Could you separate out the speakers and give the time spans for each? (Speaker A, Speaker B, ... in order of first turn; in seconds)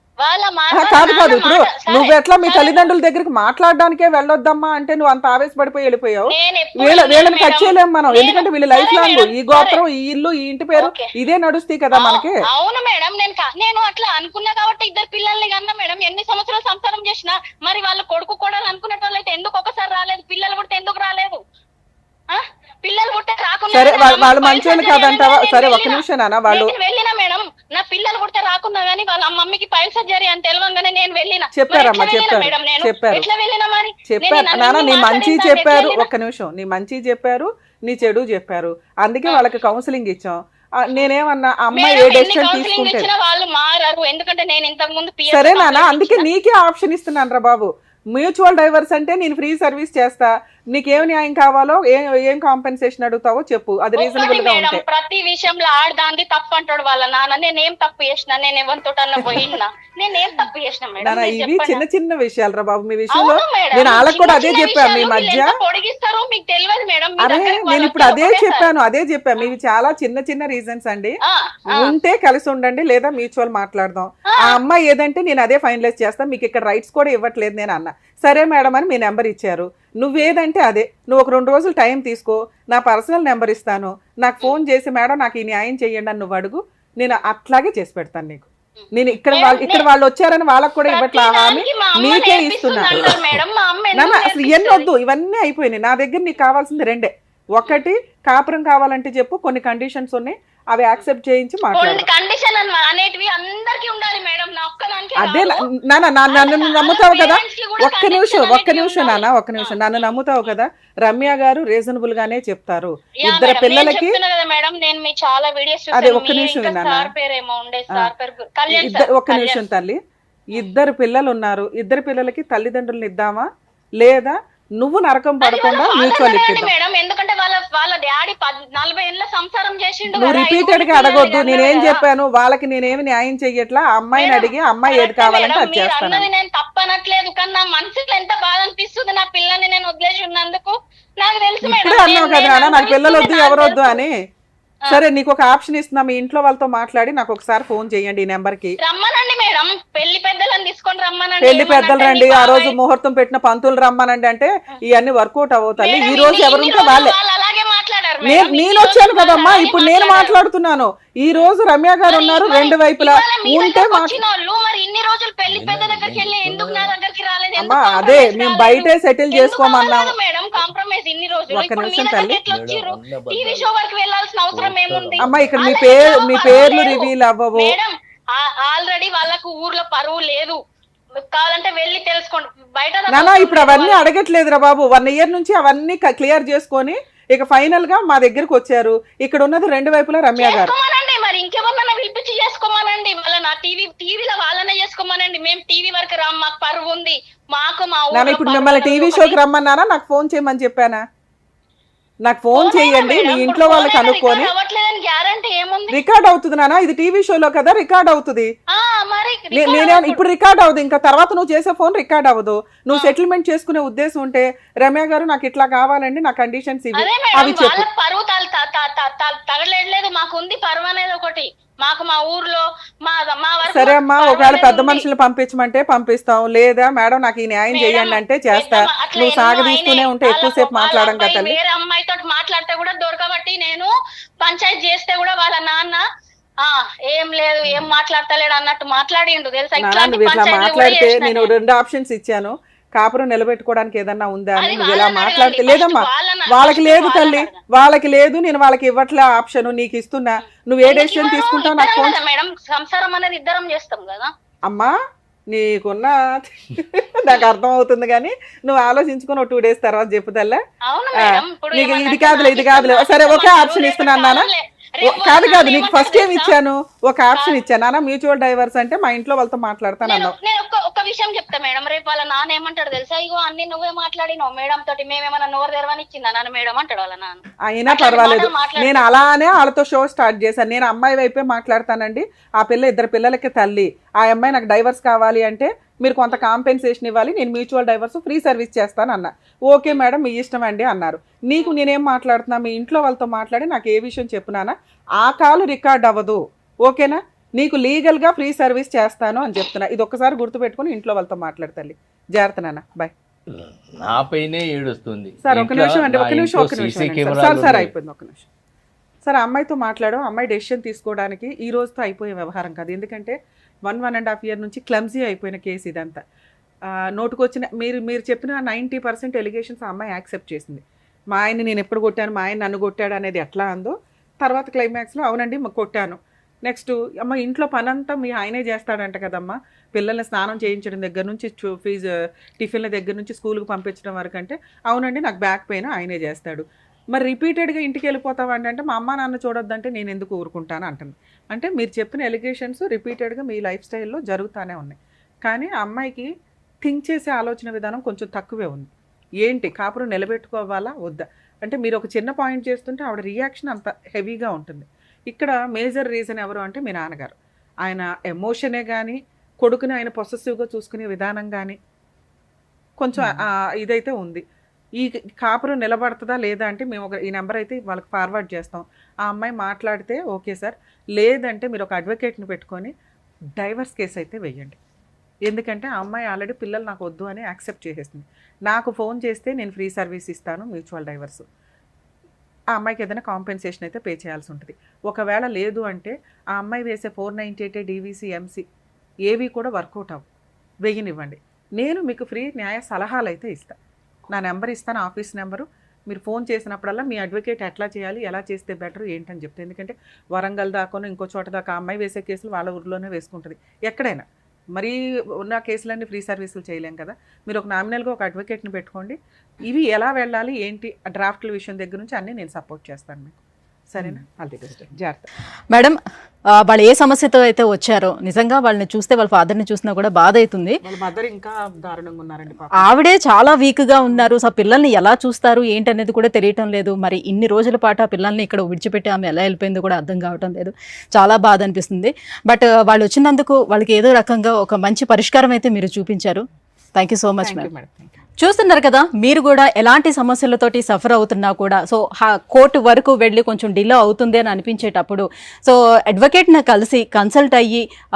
Speaker A: 0.2-2.9, 6.3-9.8, 10.8-11.1, 11.9-21.4, 22.3-36.1, 39.3-39.5, 41.7-46.3, 54.0-61.8, 63.1-68.7, 71.2-71.9, 74.3-74.6, 88.8-89.9, 90.9-94.9, 101.7-105.6, 106.3-109.8, 113.2-119.6, 125.4-132.0, 134.1-144.0, 148.8-152.7, 155.8-160.4, 162.1-180.6, 181.3-184.0, 190.4-199.4, 202.5-206.0, 208.7-210.2, 216.9-225.1, 227.7-233.9, 234.4-236.0, 236.6-241.5, 244.6-247.6, 250.8-254.3, 260.9-266.5, 267.3-267.6, 270.0-279.1
Speaker B: 0.7-12.4, 23.7-26.7, 31.5-33.3, 34.1-43.1, 45.3-54.8, 61.0-65.5, 67.2-71.1, 71.7-93.1, 93.9-102.0, 105.2-114.2, 115.9-117.1, 118.7-120.0, 120.5-123.5, 124.0-126.7, 130.1-136.3, 141.6-144.1, 144.9-148.7, 151.4-157.1, 158.2-164.2, 167.6-170.1, 171.5-172.4, 175.2-177.7, 183.1-190.7, 198.1-201.0, 202.2-204.5, 205.9-208.5, 209.5-217.8, 223.7-231.6, 239.8-252.2, 254.7-254.9, 255.5-260.6, 261.2-264.5, 265.0-270.3, 277.7-303.1, 305.4-308.5, 309.2-313.3, 313.9-316.2, 317.1-320.8, 321.3-346.3, 346.8-348.9, 349.4-361.8, 363.0-364.4, 365.0-372.9, 373.6-374.8, 375.5-381.4, 382.7-388.6, 389.3-390.2, 390.8-393.8, 394.3-404.2, 404.7-413.4, 413.9-415.3, 420.8-422.9, 424.1-424.3, 437.4-438.2
Speaker C: 165.5-166.9, 172.5-173.7, 174.5-175.8, 303.5-307.9
Speaker D: 415.7-416.0, 416.6-420.8, 422.7-436.4, 436.9-437.7, 438.4-447.8